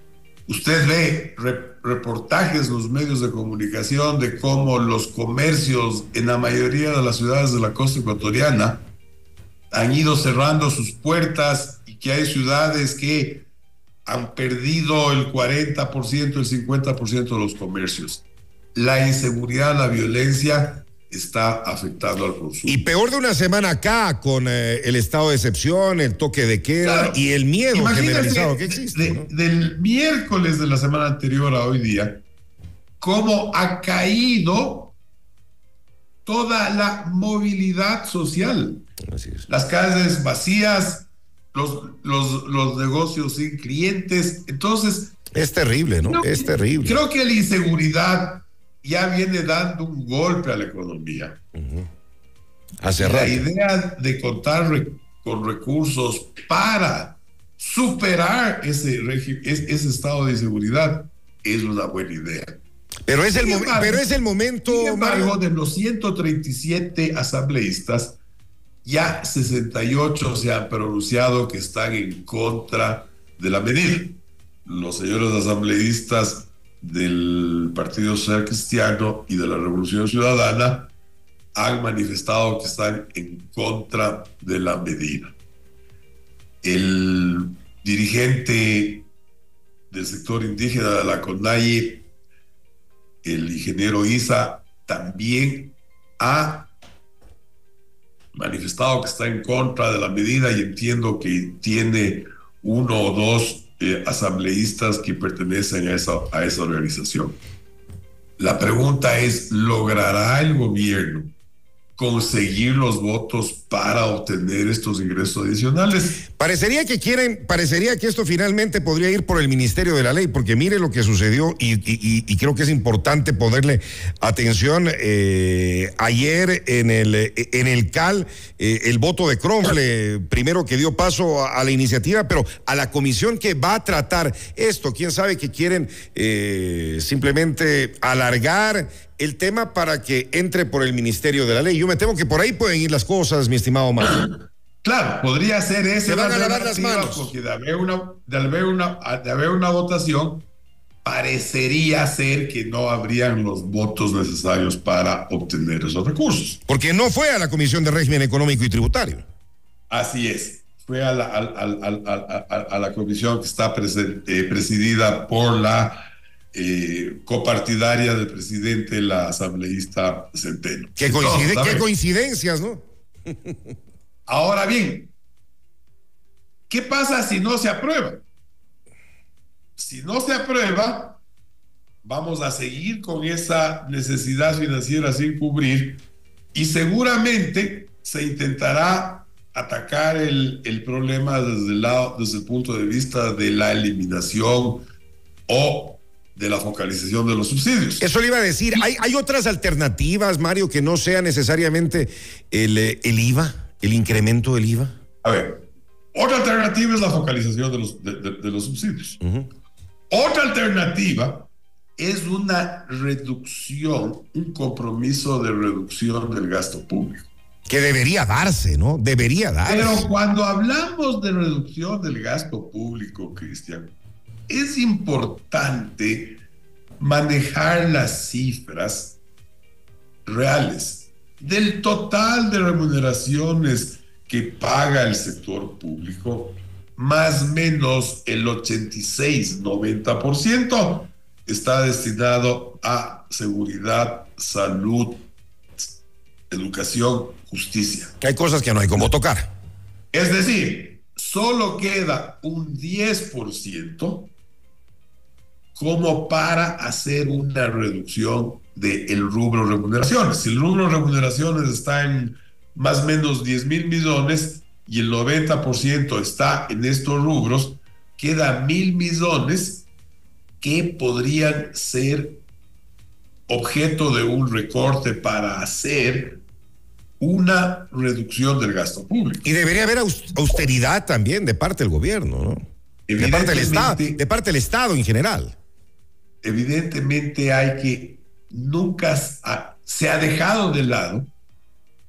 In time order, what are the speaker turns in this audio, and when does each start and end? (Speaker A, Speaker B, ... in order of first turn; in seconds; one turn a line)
Speaker A: 0.5-8.8
Speaker A: 9.7-13.5
Speaker A: 14.0-18.2
Speaker A: 18.7-22.8
Speaker B: 22.6-29.3
Speaker A: 26.8-32.2
Speaker A: 33.0-34.9
Speaker A: 36.2-38.9
Speaker B: 39.1-39.5
Speaker A: 39.5-45.2
Speaker B: 45.3-47.0
Speaker A: 46.0-51.4
Speaker B: 51.5-51.9
Speaker B: 52.8-53.4
Speaker A: 53.0-62.6
Speaker B: 63.0-65.3
Speaker A: 63.4-64.0
Speaker A: 64.6-68.2
Speaker A: 68.8-80.9
Speaker A: 81.5-85.3
Speaker A: 86.6-89.1
Speaker A: 89.9-92.0
Speaker A: 93.2-96.7
Speaker A: 98.3-107.4
Speaker A: 108.4-111.3
Speaker A: 112.0-116.2
Speaker B: 116.3-144.3
Speaker A: 144.0-150.4
Speaker B: 146.1-147.3
Speaker A: 151.0-156.6
Speaker B: 156.7-159.2
Speaker A: 159.9-171.8
Speaker B: 171.0-173.6
Speaker A: 174.3-175.1
Speaker A: 176.7-178.2
Speaker A: 179.8-181.2
Speaker A: 182.0-186.0
Speaker A: 186.5-194.8
Speaker A: 195.5-198.0
Speaker B: 198.0-204.9
Speaker A: 205.2-209.2
Speaker B: 209.2-209.5
Speaker A: 210.1-217.3
Speaker B: 217.7-220.1
Speaker A: 219.6-223.9
Speaker A: 224.5-226.4
Speaker A: 227.0-229.2
Speaker A: 230.2-245.2
Speaker A: 246.5-248.1
Speaker B: 248.2-249.5
Speaker A: 250.1-254.3
Speaker A: 255.7-269.9
Speaker A: 270.6-272.4
Speaker A: 273.5-276.4
Speaker A: 277.2-279.4
Speaker B: 279.4-282.6
Speaker A: 283.1-284.2
Speaker B: 283.2-285.5
Speaker A: 286.4-291.3